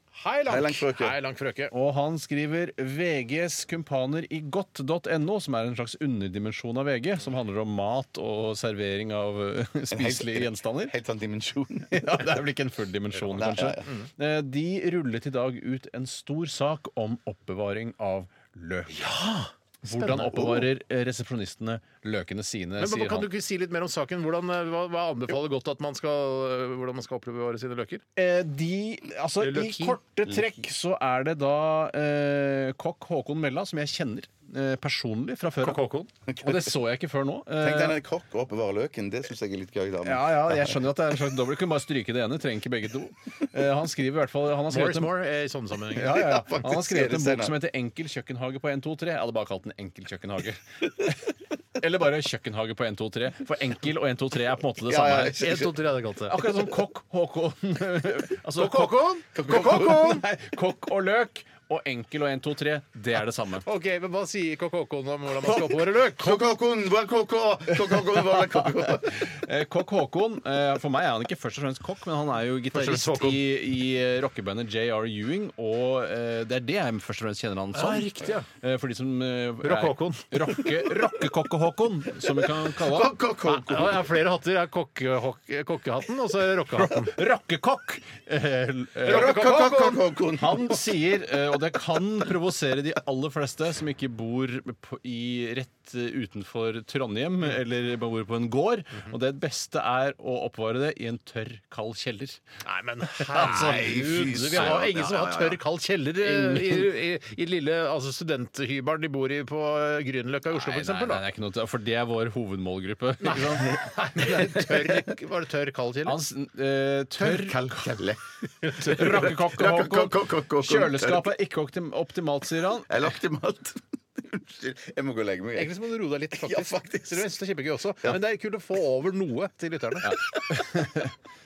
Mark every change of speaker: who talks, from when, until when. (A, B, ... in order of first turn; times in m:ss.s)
0:00.2-0:01.7 A
0:00.5-0:01.2 B
0:01.7-0:11.0 C
0:09.9-0:12.2 B
0:11.9-0:19.0 C
0:13.3-0:13.9 B
0:19.0-0:20.5 A
0:19.8-0:23.3 C
0:20.3-0:20.6 B
0:22.8-0:28.0 A
0:28.2-0:35.8 C
0:29.4-0:30.0 A
0:35.6-0:36.1 A
0:36.3-0:36.7 B
0:36.4-0:38.0 C
0:37.6-0:40.8 B
0:40.0-0:45.2 C
0:44.7-0:46.3 A
0:45.9-0:55.5 C
0:46.1-0:47.5 B
0:54.8-0:55.7 B
0:55.4-0:56.4 A
0:56.3-1:03.7 C
0:58.6-1:00.2 A
0:59.4-1:00.2 B
1:03.6-1:06.5 A
1:06.2-1:09.3 B
1:07.8-1:23.2 C
1:12.7-1:13.4 A
1:17.8-1:18.5 A
1:19.6-1:20.6 A
1:22.7-1:24.1 B
1:23.5-1:27.2 A
1:26.8-1:29.5 C
1:29.0-1:30.0 A
1:29.1-1:30.8 B
1:30.4-1:42.4 C
1:42.6-1:51.2 A
1:43.3-1:44.8 C
1:43.4-1:45.6 B
1:46.2-1:46.9 C
1:50.5-1:54.8 C
1:53.2-1:56.2 A
1:56.0-1:57.9 C
1:57.2-2:01.3 B
1:58.6-1:59.3 A
1:58.8-2:03.0 C
2:02.9-2:05.7 B
2:05.6-2:10.2 A
2:06.3-2:07.3 B
2:10.0-2:11.2 C